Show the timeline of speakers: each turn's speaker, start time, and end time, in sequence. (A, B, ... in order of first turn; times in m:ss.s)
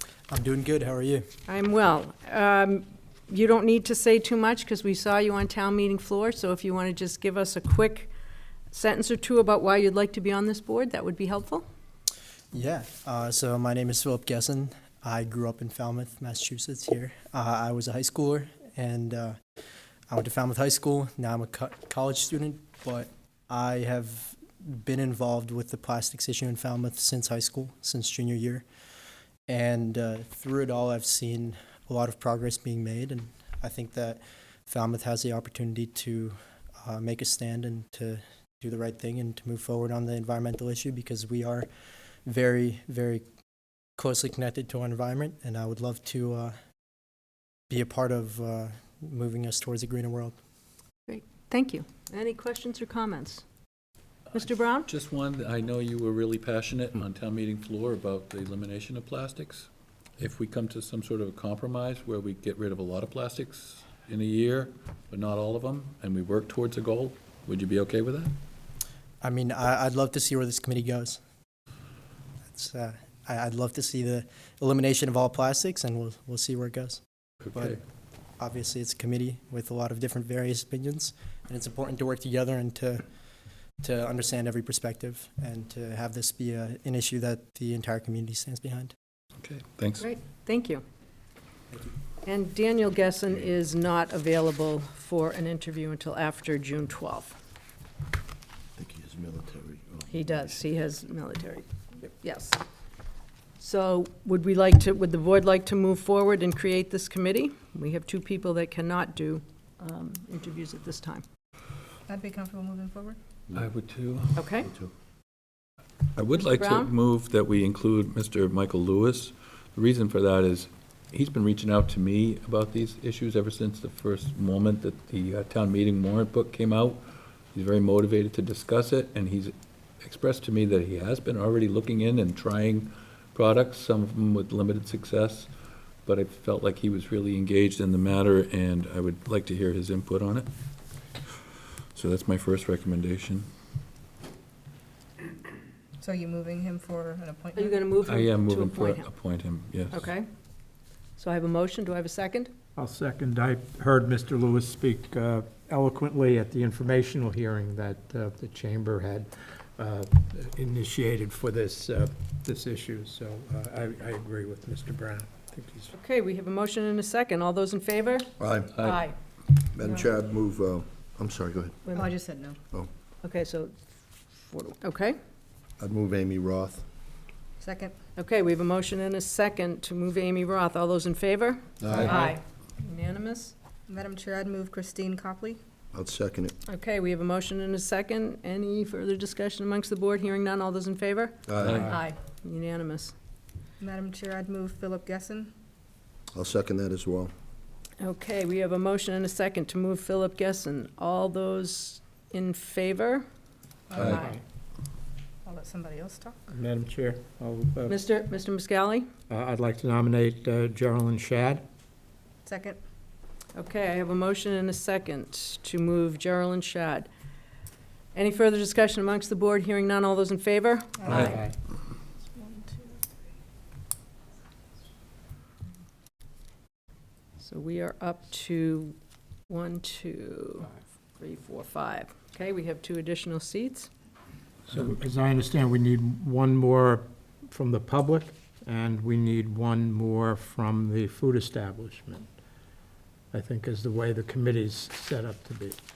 0:00.3-0:01.3 A
0:01.5-0:08.1 B
0:08.7-0:11.6 B
0:12.5-0:19.4 A
0:20.1-0:28.6 A
0:29.5-0:41.7 A
0:42.3-0:43.2 A
0:44.0-0:46.5 A
0:47.7-0:50.4 A
0:51.1-0:53.4 B
0:54.3-0:54.9 B
0:54.9-1:08.3 C
1:09.2-1:11.2 A
1:12.5-1:17.0 A
1:17.5-1:17.8 A
1:18.4-1:23.0 A
1:23.8-1:28.9 A
1:29.4-1:30.1 C
1:30.0-1:30.8 B
1:32.2-1:37.4 B
1:38.8-1:40.0 D
1:40.1-1:42.6 B
1:43.6-1:51.2 B
1:52.1-1:53.2 E
1:53.5-1:54.6 C
1:54.4-1:54.7 B
1:56.2-2:15.5 C
1:56.4-1:56.9 B
2:16.1-2:20.5 C
2:22.0-2:23.5 C
2:26.0-2:27.8 E
2:27.6-2:29.1 B
2:28.0-2:30.1 C
2:29.9-2:30.3 B
2:31.2-2:32.5 B
2:32.8-2:45.9 F
2:45.9-2:48.3 B
2:48.4-2:48.8 D
2:48.8-2:49.0 C
2:48.8-2:49.2 B
2:49.7-2:51.8 D
2:51.9-2:52.6 E
2:53.2-2:53.7 B
2:54.4-2:55.2 B
2:55.8-2:56.8 D
2:57.6-2:58.0 E
2:58.2-3:03.5 B
3:01.8-3:02.2 D
3:02.1-3:02.4 E
3:03.9-3:05.6 E
3:05.9-3:06.6 D
3:06.7-3:13.1 B
3:11.5-3:11.9 D
3:11.6-3:11.9 C
3:13.8-3:15.5 E
3:16.3-3:17.3 D
3:18.0-3:23.2 B
3:23.9-3:24.3 E
3:24.0-3:24.4 F
3:24.0-3:24.2 B
3:25.4-3:26.4 E
3:26.5-3:28.0 F
3:27.9-3:29.1 B
3:29.3-3:31.6 F
3:32.4-3:32.8 E
3:33.6-3:37.1 B
3:38.1-3:41.4 B
3:41.0-3:41.5 E
3:41.1-3:41.5 F
3:41.1-3:41.4 C
3:42.3-3:43.1 E
3:47.4-3:49.0 B
3:49.5-3:53.9 B
3:54.7-4:02.3 F
4:03.3-4:05.8 F